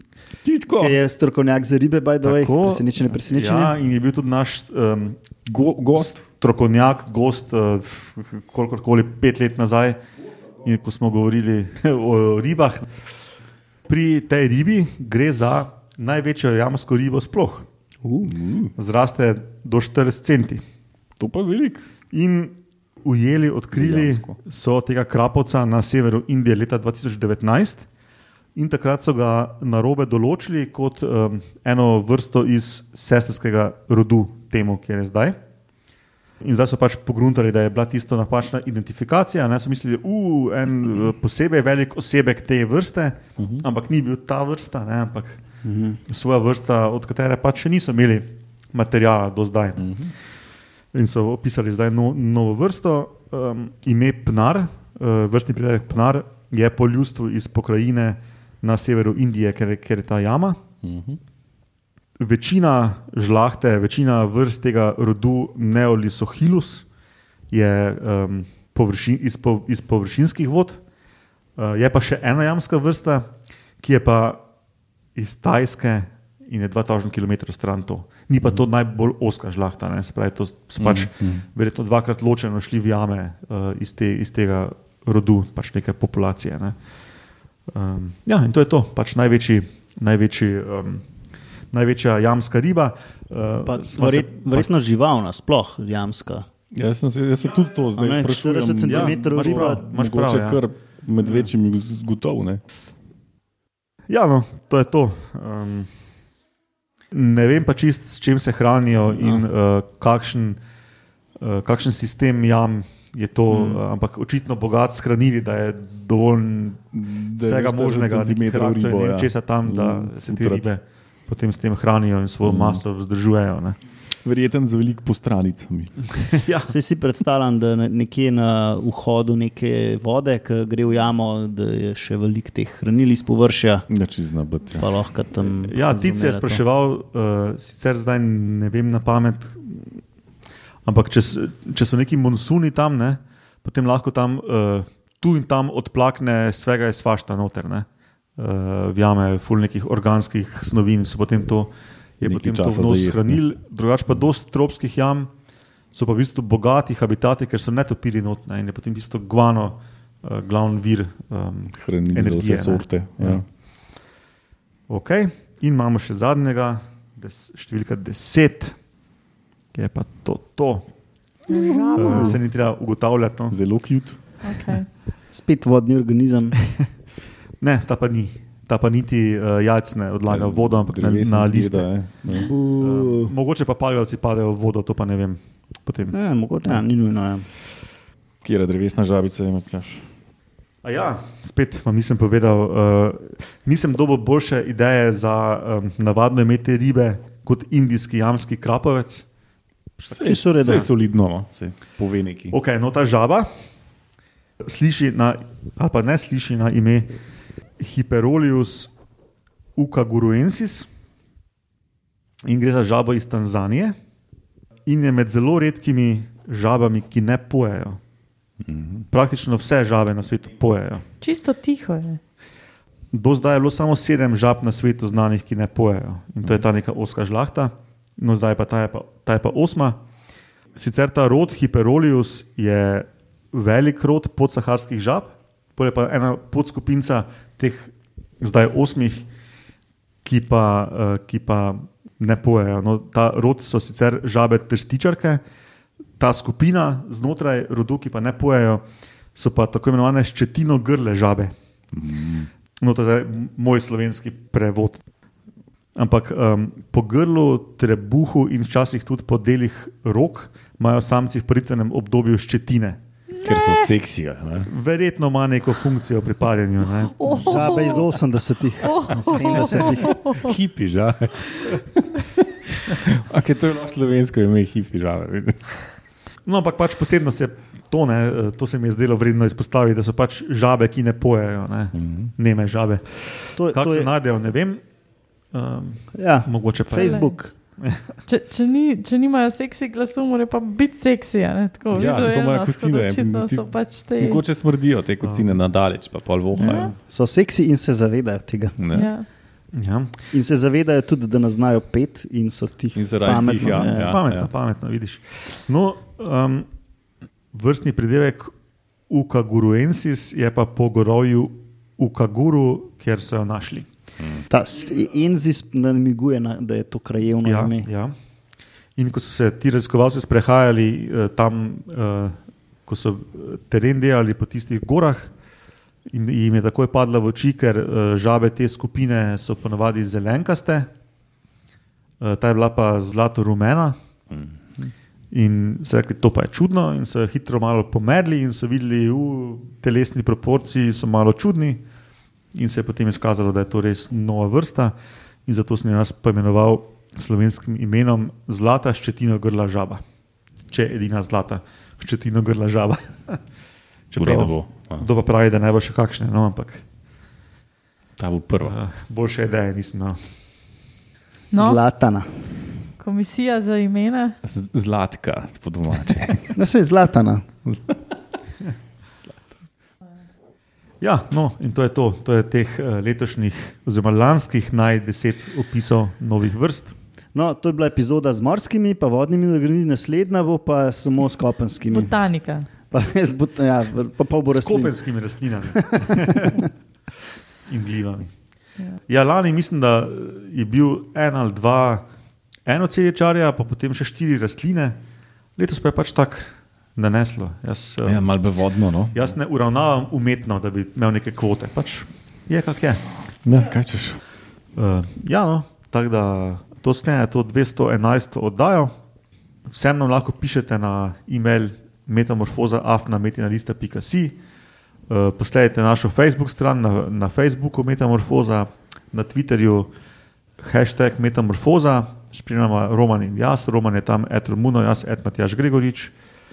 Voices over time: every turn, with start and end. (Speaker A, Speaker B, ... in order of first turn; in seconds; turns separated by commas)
Speaker A: 0.4-1.0, Speaker B: 0.8-3.8, Speaker C: 2.2-5.2, Speaker A: 5.5-6.2, Speaker C: 6.0-10.0, Speaker C: 10.6-12.9, Speaker C: 13.9-17.7, Speaker B: 18.0-18.3, Speaker A: 18.2-18.7, Speaker C: 18.8-20.6, Speaker A: 21.2-21.9, Speaker C: 22.1-27.9, Speaker A: 23.7-24.4, Speaker C: 28.6-35.4, Speaker C: 36.4-45.4, Speaker A: 43.4-43.6, Speaker B: 45.6-46.0, Speaker C: 46.1-50.0, Speaker A: 49.8-50.1, Speaker C: 50.9-60.6, Speaker A: 60.8-61.2, Speaker C: 62.2-66.9, Speaker C: 67.5-70.8, Speaker C: 71.6-73.3, Speaker C: 73.8-74.4, Speaker C: 75.2-86.8, Speaker A: 80.8-81.4, Speaker C: 87.7-91.0, Speaker C: 91.7-94.7, Speaker B: 93.7-96.5, Speaker A: 96.7-102.6, Speaker B: 98.0-99.8, Speaker C: 98.9-100.6, Speaker C: 104.1-105.9, Speaker C: 107.1-110.6, Speaker A: 109.2-109.4, Speaker C: 111.4-123.8, Speaker B: 113.5-113.8, Speaker A: 116.9-120.7, Speaker A: 122.4-122.8, Speaker A: 124.2-126.0, Speaker C: 126.1-126.7, Speaker B: 126.7-133.9, Speaker A: 133.9-134.9, Speaker B: 134.8-136.6, Speaker C: 135.4-140.0, Speaker C: 140.8-155.3, Speaker A: 152.2-153.4, Speaker C: 155.9-163.4, Speaker A: 161.7-163.4, Speaker C: 164.9-168.8, Speaker C: 169.7-170.9, Speaker D: 171.5-172.4, Speaker A: 171.5-172.4, Speaker C: 171.9-173.6, Speaker A: 173.5-174.2, Speaker D: 174.4-174.9, Speaker B: 175.3-176.6, Speaker C: 177.6-186.1, Speaker A: 180.3-182.5, Speaker B: 182.3-183.3, Speaker B: 186.1-187.5, Speaker A: 188.4-190.1, Speaker C: 190.8-199.3, Speaker A: 200.1-202.6, Speaker B: 200.1-200.9, Speaker C: 202.5-203.5, Speaker C: 204.6-207.1, Speaker C: 207.8-208.9, Speaker C: 209.8-210.9, Speaker C: 212.4-213.9, Speaker C: 214.9-218.0, Speaker A: 218.6-219.1, Speaker C: 219.1-221.1, Speaker D: 221.2-222.2, Speaker C: 223.1-230.0, Speaker C: 230.8-239.3, Speaker C: 240.2-245.4, Speaker C: 246.2-248.8, Speaker C: 249.3-251.5, Speaker A: 251.9-252.5, Speaker C: 252.8-255.0, Speaker C: 256.0-263.0, Speaker D: 263.3-263.9, Speaker A: 263.4-264.7, Speaker C: 264.7-267.3, Speaker D: 267.1-268.2, Speaker B: 267.3-270.2, Speaker D: 268.8-270.6, Speaker A: 269.6-275.9, Speaker C: 276.5-284.8, Speaker A: 281.9-282.3, Speaker B: 283.6-284.1, Speaker C: 285.5-287.2, Speaker B: 286.1-287.5, Speaker D: 287.0-287.3, Speaker D: 288.3-294.4, Speaker A: 291.9-296.9, Speaker C: 295.2-295.5, Speaker B: 296.6-298.8, Speaker A: 298.8-299.1, Speaker D: 298.9-299.3, Speaker C: 299.8-300.1, Speaker B: 300.3-304.2, Speaker A: 302.9-304.5, Speaker C: 303.6-306.7, Speaker C: 307.5-308.5, Speaker C: 309.1-313.9, Speaker A: 314.2-314.4, Speaker B: 314.5-317.9, Speaker C: 317.4-318.1, Speaker C: 319.0-325.3, Speaker C: 326.1-330.9, Speaker C: 332.2-334.0, Speaker C: 335.3-341.8, Speaker C: 342.5-344.9, Speaker C: 345.5-350.0, Speaker C: 350.7-353.4, Speaker C: 354.1-356.8, Speaker A: 354.1-355.1, Speaker A: 358.2-358.8, Speaker C: 358.6-360.2, Speaker D: 361.5-361.8, Speaker B: 361.6-362.3, Speaker D: 363.0-364.4, Speaker A: 364.4-366.6, Speaker B: 366.6-367.4, Speaker A: 367.7-367.9, Speaker C: 371.0-376.9, Speaker B: 377.4-382.1, Speaker D: 381.9-382.7, Speaker B: 382.9-385.0, Speaker C: 384.5-386.7, Speaker B: 385.8-386.6, Speaker C: 387.7-388.3, Speaker C: 389.1-392.1, Speaker C: 392.7-395.0, Speaker C: 395.6-398.2, Speaker A: 398.0-399.3, Speaker C: 399.1-403.0, Speaker A: 403.4-404.2, Speaker C: 404.8-408.9, Speaker C: 409.7-414.4, Speaker C: 415.1-419.9, Speaker C: 420.6-426.1